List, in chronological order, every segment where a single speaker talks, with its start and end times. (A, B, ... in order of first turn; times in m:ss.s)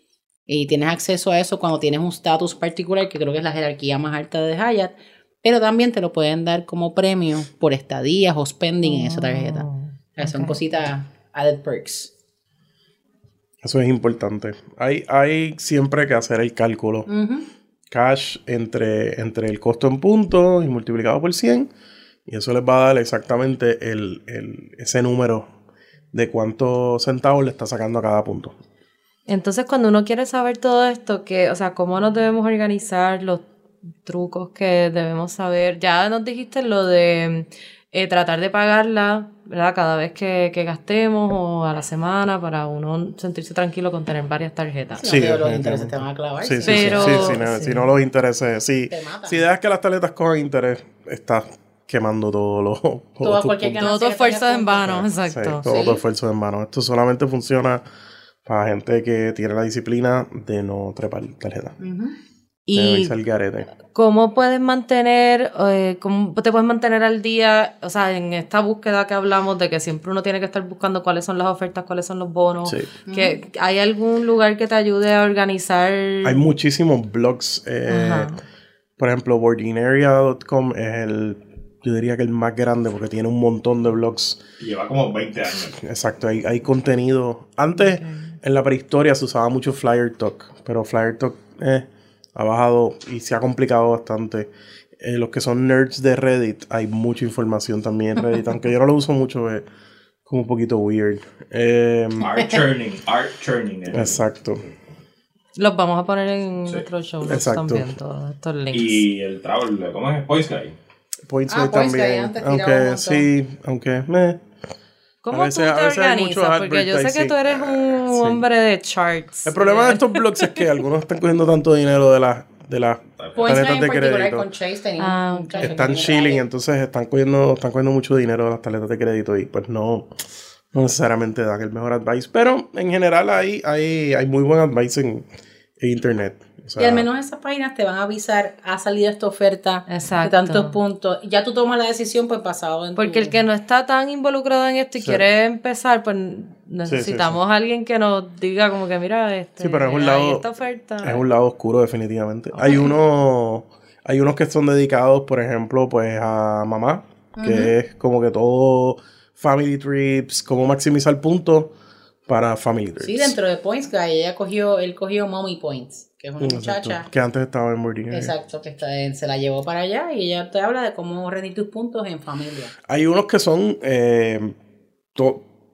0:00.5-0:12.1 A
0:08.8-0:10.6 B
0:13.6-0:17.1 C
0:17.1-0:17.5 A
0:17.9-0:21.7 C
0:22.3-0:25.5 C
0:26.1-0:28.5 C
0:29.3-0:33.4 B
0:34.0-0:45.0 B
0:45.0-0:47.4 A
0:45.0-0:53.9 C
0:46.6-0:47.9 B
0:48.9-0:49.4 A
0:53.2-0:55.0 A
0:53.8-0:55.6 B
0:54.8-0:57.8 C
0:55.6-0:56.0 A
0:58.4-1:01.8 C
1:01.8-1:02.2 A
1:02.7-1:03.1 B
1:02.7-1:03.7 C
1:03.8-1:16.4 B
1:13.1-1:13.4 A
1:16.2-1:18.3 C
1:17.9-1:18.4 B
1:19.0-1:24.4 C
1:24.6-1:25.8 D
1:25.8-1:39.6 C
1:27.8-1:28.3 B
1:40.2-1:42.3 C
1:42.2-1:44.2 D
1:43.9-1:44.6 C
1:45.6-1:49.0 B
1:47.2-1:47.9 C
1:48.7-1:50.8 D
1:51.3-1:54.4 C
1:51.5-1:53.3 A
1:55.2-2:00.7 B
1:55.3-1:58.4 C
1:59.4-2:04.5 C
2:03.2-2:03.6 D
2:03.4-2:06.4 A
2:05.0-2:06.0 B
2:05.6-2:10.1 C
2:10.7-2:15.2 C
2:15.8-2:17.1 C
2:16.8-2:23.4 A
2:19.9-2:20.8 B
2:23.0-2:31.2 B
2:26.8-2:27.4 C
2:29.6-2:30.4 C
2:31.0-2:41.7 C
2:37.4-2:37.7 A
2:42.3-2:43.3 C
2:43.0-2:47.1 A
2:46.4-2:48.3 C
2:48.1-2:52.7 A
2:52.9-2:54.6 C
2:55.1-2:55.4 C